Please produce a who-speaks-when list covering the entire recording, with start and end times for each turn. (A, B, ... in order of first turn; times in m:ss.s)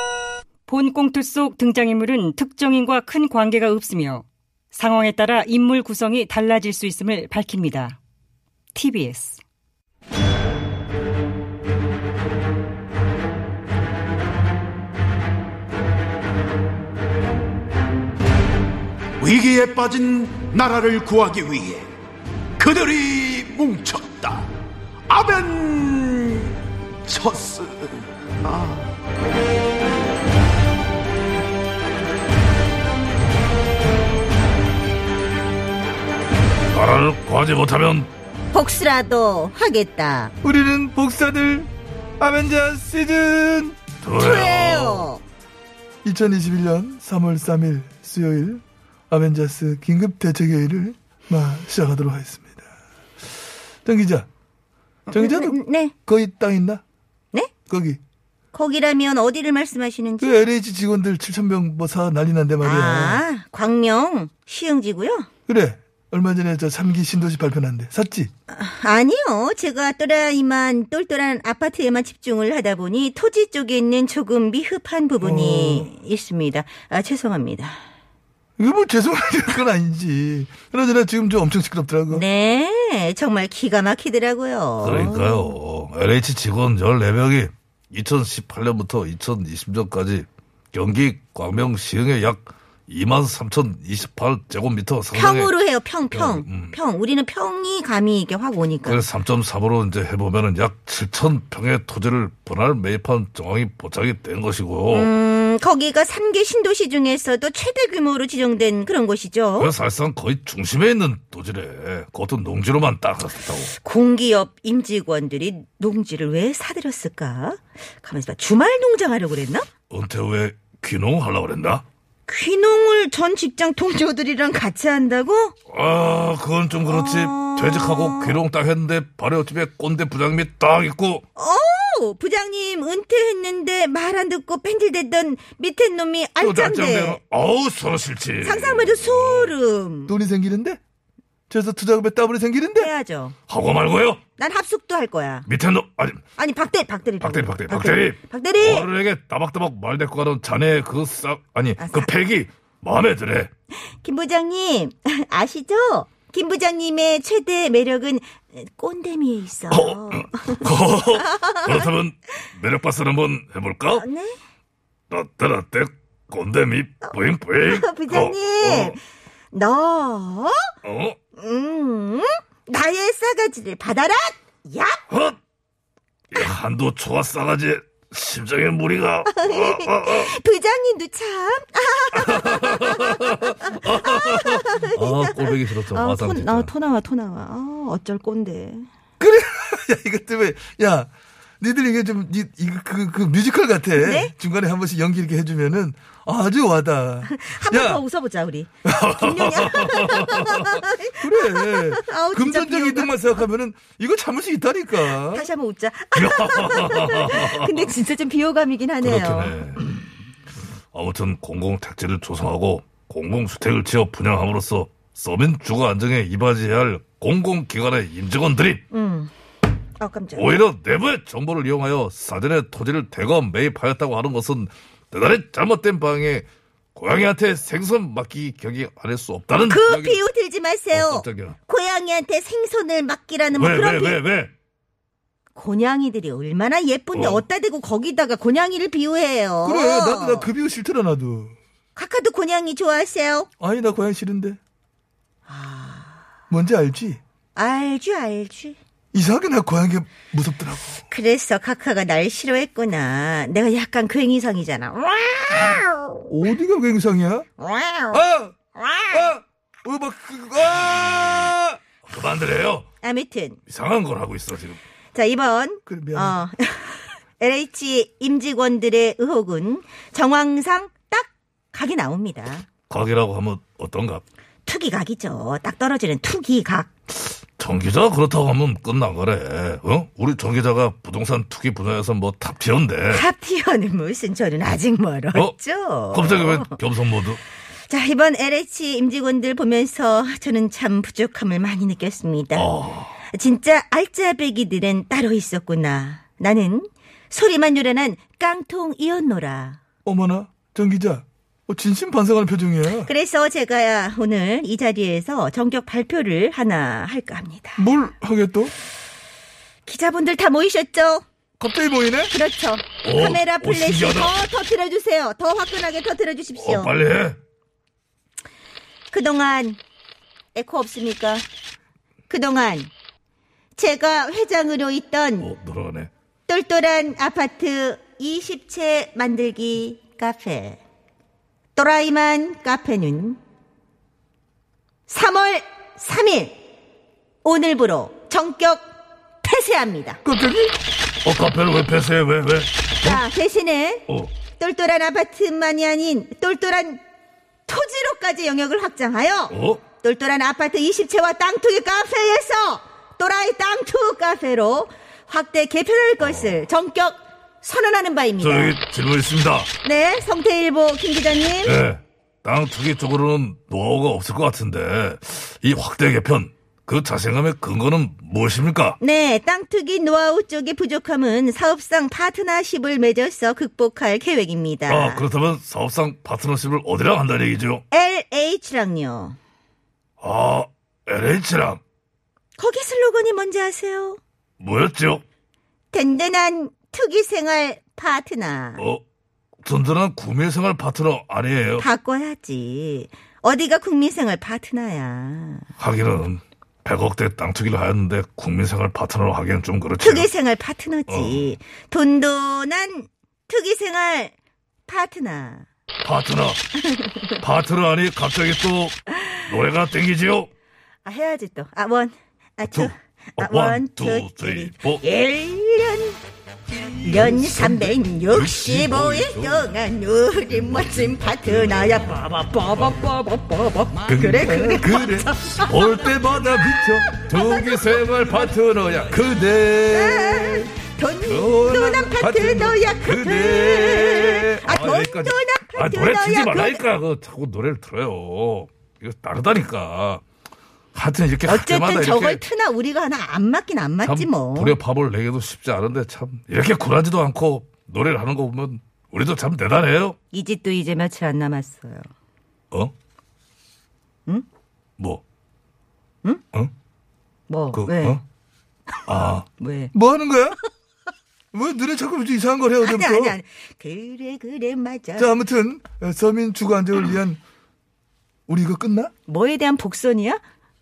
0:00.7-0:08.0 A
0:08.7-0:09.4 A
0:19.2-0:21.9 B
0:22.6-0:24.5 B
0:25.1-0:28.9 B
0:36.7-0:38.1 C
0:38.5-0:40.3 D
0:40.4-0:43.8 E
0:44.0-0:45.1 C
0:44.1-0:45.2 D
0:46.0-0:52.6 E
0:53.8-0:54.3 E
0:55.1-0:55.9 D
0:55.1-0:56.8 E
0:57.7-0:58.0 E
0:58.5-1:00.4 D
1:00.2-1:03.2 E
1:02.6-1:05.3 D
1:05.5-1:08.3 E
1:08.5-1:17.8 D
1:15.2-1:15.9 E
1:18.6-1:22.2 E
1:22.1-1:25.5 D
1:24.8-1:36.8 C
1:35.1-1:39.0 D
1:38.9-1:45.1 C
1:44.9-1:49.7 D
1:49.6-1:53.7 C
1:53.8-1:59.7 D
1:59.9-2:01.8 C
2:02.3-2:05.5 D
2:05.7-2:11.2 C
2:06.8-2:08.4 D
2:11.4-2:17.2 D
2:16.4-2:19.5 C
2:18.4-2:20.2 D
2:20.1-2:20.8 E
2:21.5-2:22.9 E
2:22.8-2:23.4 D
2:23.5-2:24.2 C
2:24.4-2:25.5 D
2:25.5-2:26.2 C
2:26.4-2:28.9 D
2:27.2-2:33.5 C
2:31.8-2:32.1 D
2:33.8-2:41.9 D
2:39.7-2:44.0 C
2:43.9-2:44.4 D
2:45.1-2:49.0 C
2:47.1-2:49.0 D
2:49.5-2:50.7 D
2:50.8-2:51.2 C
2:51.4-2:55.0 D
2:55.1-2:55.4 C
2:56.3-3:00.3 C
2:59.3-3:08.9 D
3:02.2-3:06.7 C
3:09.2-3:18.0 E
3:14.0-3:14.3 D
3:17.2-3:23.2 D
3:18.8-3:19.9 E
3:19.8-3:20.5 C
3:21.2-3:25.5 E
3:25.0-3:29.6 D
3:26.2-3:27.9 C
3:29.0-3:29.8 C
3:30.9-3:38.8 C
3:38.9-3:39.3 D
3:40.0-3:40.5 D
3:40.3-3:50.2 C
3:49.6-3:54.2 D
3:50.9-3:51.6 C
3:53.6-3:54.5 C
3:55.6-4:00.5 D
3:57.1-3:57.4 C
3:59.6-4:01.5 E
4:02.0-4:03.5 D
4:03.6-4:04.6 E
4:05.5-4:06.2 D
4:06.5-4:07.2 E
4:07.6-4:08.8 D
4:09.1-4:11.0 E
4:11.1-4:16.3 D
4:16.3-4:17.5 E
4:17.6-4:18.2 D
4:18.1-4:18.6 E
4:18.7-4:19.3 D
4:19.1-4:21.8 E
4:22.1-4:22.9 C
4:23.0-4:23.6 D
4:23.7-4:24.8 C
4:25.1-4:32.7 D
4:25.9-4:26.4 E
4:32.9-4:34.2 C
4:34.6-4:36.9 D
4:37.6-4:43.2 C
4:43.1-4:46.7 D
4:46.1-4:47.4 C
4:47.9-4:52.7 D
4:52.5-4:53.2 C
4:53.3-4:59.8 D
5:00.0-5:03.1 E
5:03.0-5:07.8 D
5:07.8-5:08.7 E
5:09.9-5:11.2 D
5:11.6-5:12.3 E
5:12.3-5:16.9 D
5:13.0-5:14.4 C
5:16.6-5:17.4 C
5:19.1-5:19.8 D
5:20.5-5:21.4 D
5:22.3-5:22.9 D
5:23.8-5:25.5 D
5:25.4-5:26.1 C
5:26.5-5:30.8 D
5:31.8-5:33.4 D
5:35.1-5:36.6 D
5:37.4-5:38.8 D
5:39.4-5:40.2 D
5:40.2-5:40.8 E
5:41.2-5:43.2 C
5:43.0-5:47.0 D
5:47.7-5:58.8 D
5:49.5-5:49.8 C
5:56.2-5:56.6 C
5:58.4-5:59.7 C
5:59.8-6:01.8 D
6:01.6-6:09.0 C
6:09.0-6:15.2 D
6:14.9-6:17.8 C
6:17.9-6:19.4 D
6:20.2-6:21.8 C
6:22.6-6:24.2 D
6:24.6-6:25.2 C
6:25.9-6:28.8 D
6:29.6-6:31.9 C
6:31.8-6:35.7 D
6:35.8-6:40.3 C
6:40.0-6:44.3 D
6:41.1-6:41.6 C
6:44.9-6:45.7 D
6:46.0-6:46.8 C
6:46.9-6:47.4 D
6:47.4-6:50.5 C
6:51.0-6:56.2 D
6:52.7-6:55.0 C
6:57.0-7:05.8 D
6:57.3-6:59.7 C
7:00.8-7:02.0 C
7:04.1-7:07.2 E
7:05.7-7:06.2 C
7:06.8-7:08.1 D
7:07.3-7:09.3 C
7:08.9-7:10.7 E
7:09.9-7:16.8 D
7:11.2-7:11.6 C
7:11.4-7:14.6 E
7:12.2-7:13.2 C
7:14.6-7:20.2 C
7:20.9-7:22.4 C
7:21.5-7:24.8 D
7:24.0-7:30.2 C
7:30.3-7:32.1 D
7:37.5-7:38.2 D
7:37.7-7:38.2 C
7:39.1-7:39.5 C
7:39.6-7:39.9 D
7:39.9-7:40.6 E
7:41.5-7:43.4 E
7:42.8-7:45.3 D
7:45.2-7:47.4 E
7:48.5-7:49.1 E
7:49.3-7:50.4 D